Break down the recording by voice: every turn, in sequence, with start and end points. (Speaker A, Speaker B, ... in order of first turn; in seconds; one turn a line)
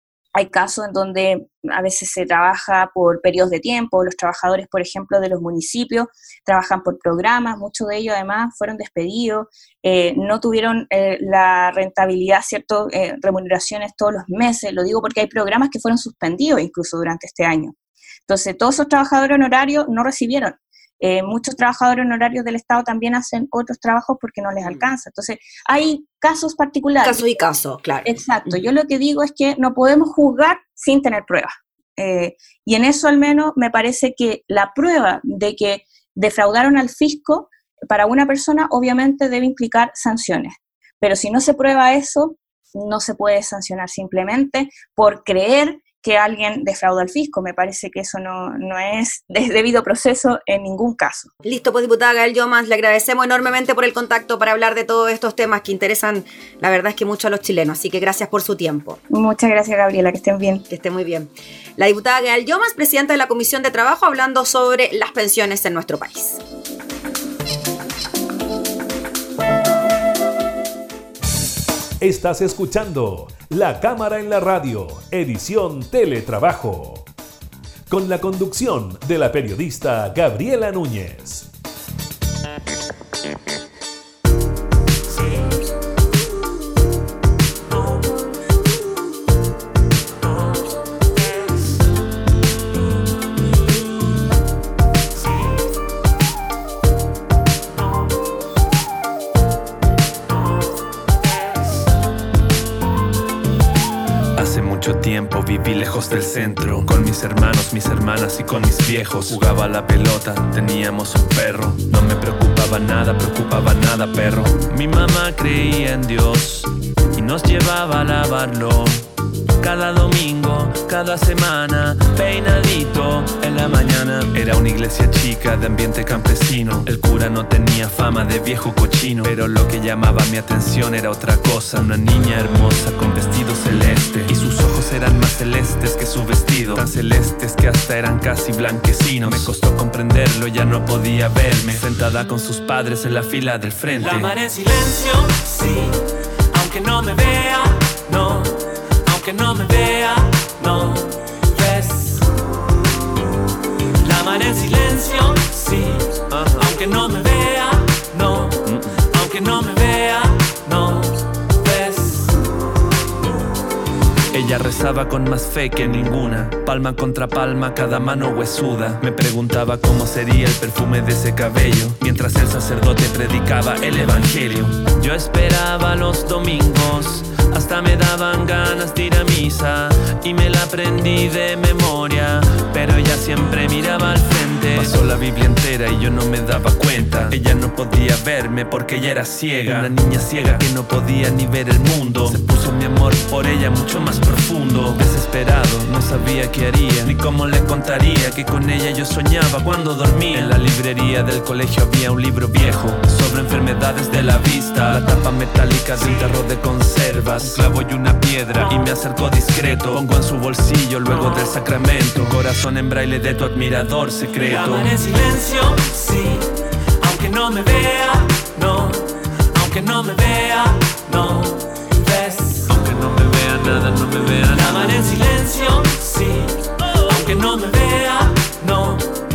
Speaker A: 0.3-17.7
Speaker A: 18.3-27.2
Speaker B: 27.0-28.6
Speaker A: 28.0-51.3
Speaker B: 51.4-59.0
Speaker A: 59.1-60.6
Speaker B: 60.7-66.4
Speaker C: 72.0-77.1
Speaker C: 77.9-81.5
Speaker D: 104.4-116.7
Speaker D: 117.2-119.0
Speaker D: 119.6-144.4
Speaker E: 134.2-134.5
Speaker E: 139.2-139.5
Speaker E: 141.4-141.8
Speaker E: 143.9-146.0
Speaker E: 146.5-152.2
Speaker E: 154.0-162.3
Speaker D: 156.3-156.8
Speaker D: 158.7-159.3
Speaker D: 164.3-215.1
Speaker E: 187.0-187.3
Speaker E: 189.6-190.6
Speaker E: 200.3-200.6
Speaker E: 205.9-206.4
Speaker E: 207.3-210.0
Speaker E: 211.1-212.4
Speaker E: 214.3-216.4
Speaker E: 217.0-219.0
Speaker E: 219.6-222.7
Speaker D: 222.6-225.2
Speaker E: 224.5-226.5
Speaker E: 227.1-229.0